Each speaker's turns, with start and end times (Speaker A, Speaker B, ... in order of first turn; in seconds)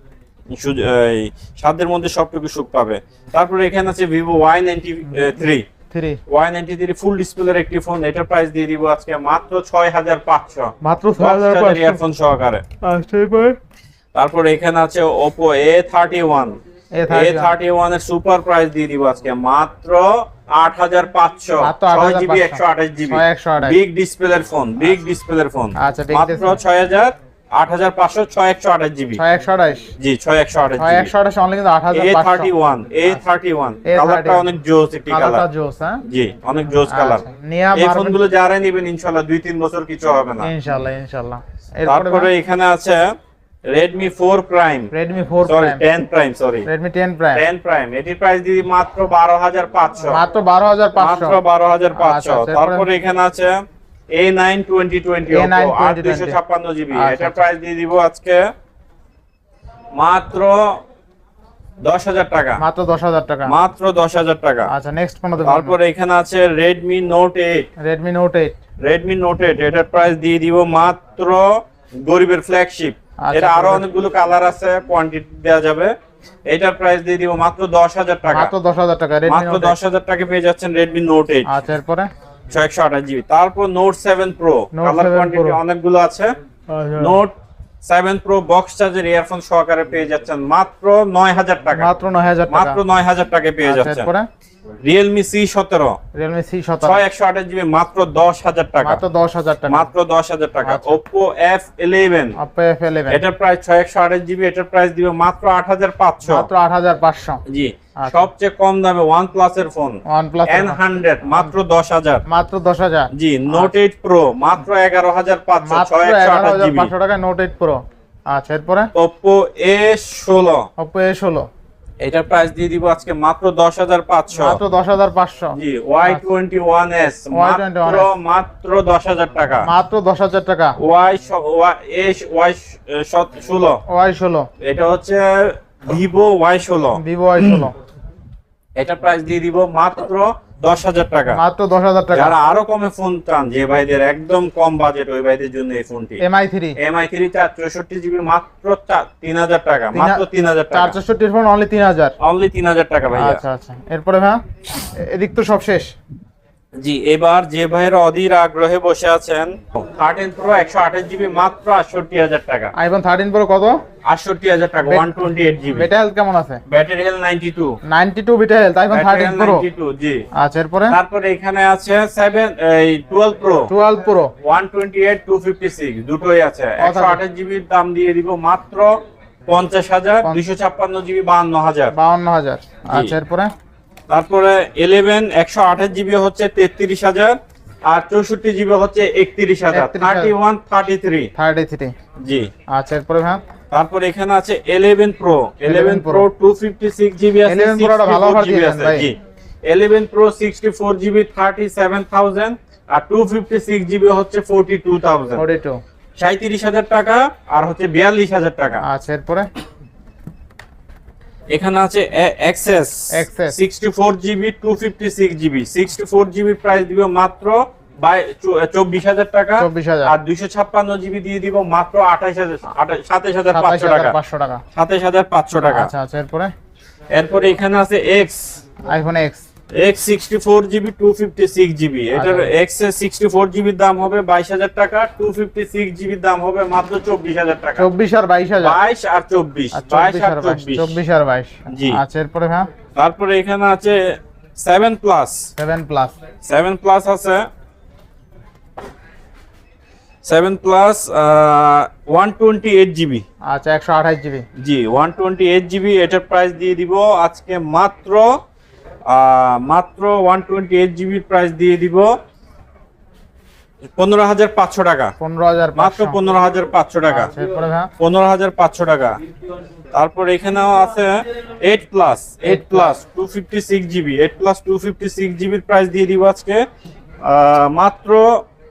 Speaker A: 0.5-5.7, 6.3-12.6, 14.2-16.6, 17.1-29.2, 30.0-31.1, 31.9-35.5, 36.1-40.5, 41.9-43.2, 43.7-44.9, 45.5-46.7, 47.3-50.2, 51.0-58.5, 60.0-60.8, 61.8-62.6, 63.5-64.7, 65.4-67.7, 68.8-76.0, 76.5-78.5, 79.3-81.5, 82.5-86.3, 87.0-91.9, 92.5-94.1, 94.8-96.0, 96.8-99.0, 99.7-102.3, 103.1-106.5, 107.5-112.2, 113.1-116.9, 119.0-120.7, 122.0-124.6, 125.5-129.7, 130.8-133.8, 134.6-137.7, 138.8-141.4, 142.1-146.2, 146.8-151.0, 152.2-153.4, 156.8-162.7, 164.1-165.9, 166.7-167.8, 168.9-170.2, 170.9-173.7, 174.4-181.9, 182.9-183.2, 184.1-191.3, 192.2-192.5, 193.7-205.4, 206.2-208.8, 211.5-224.2, 224.7-225.9, 227.1-228.6, 229.8-237.9, 238.6-240.9, 241.7-242.0, 243.0-245.5, 246.4-247.5, 250.2-253.2, 254.6-258.3, 259.1-262.1, 264.0-265.1, 265.8-267.4, 268.0-269.2, 269.9-276.6, 277.2-278.4
Speaker B: 5.9-6.2, 10.8-12.0, 12.8-13.6, 17.0-17.5, 21.6-23.8, 25.8-26.5, 29.2-29.9, 30.8-32.5, 33.9-34.5, 35.1-36.0, 36.9-38.2, 40.4-42.3, 44.9-45.8, 46.6-47.4, 50.1-51.4, 52.0-52.9, 55.3-56.4, 56.9-57.4, 62.6-63.6, 64.7-65.8, 67.8-68.6, 73.2-73.8, 78.3-79.8, 81.5-82.1, 84.7-85.6, 86.7-87.2, 91.8-92.8, 93.6-94.3, 96.2-97.0, 98.8-99.9, 100.7-101.0, 102.4-103.2, 106.3-107.4, 108.0-108.2, 110.1-110.8, 112.3-113.7, 115.6-118.9, 120.8-121.5, 124.3-126.2, 127.3-128.1, 129.7-130.8, 133.9-134.5, 136.9-137.7, 141.3-142.4, 146.2-146.8, 149.9-152.2, 153.1-155.9, 162.7-163.8, 164.9-166.6, 167.9-169.7, 170.3-171.0, 173.7-174.3, 176.8-177.2, 181.9-183.5, 189.7-190.3, 191.4-191.9, 192.7-193.4, 195.7-196.3, 197.5-199.1, 205.4-205.8, 208.8-209.5, 213.1-213.6, 219.6-220.2, 223.5-224.6, 225.5-226.5, 228.9-229.4, 232.1-232.5, 237.8-238.8, 239.7-242.7, 245.6-246.2, 253.5-254.5, 265.2-266.2, 267.1-267.9, 272.4-273.0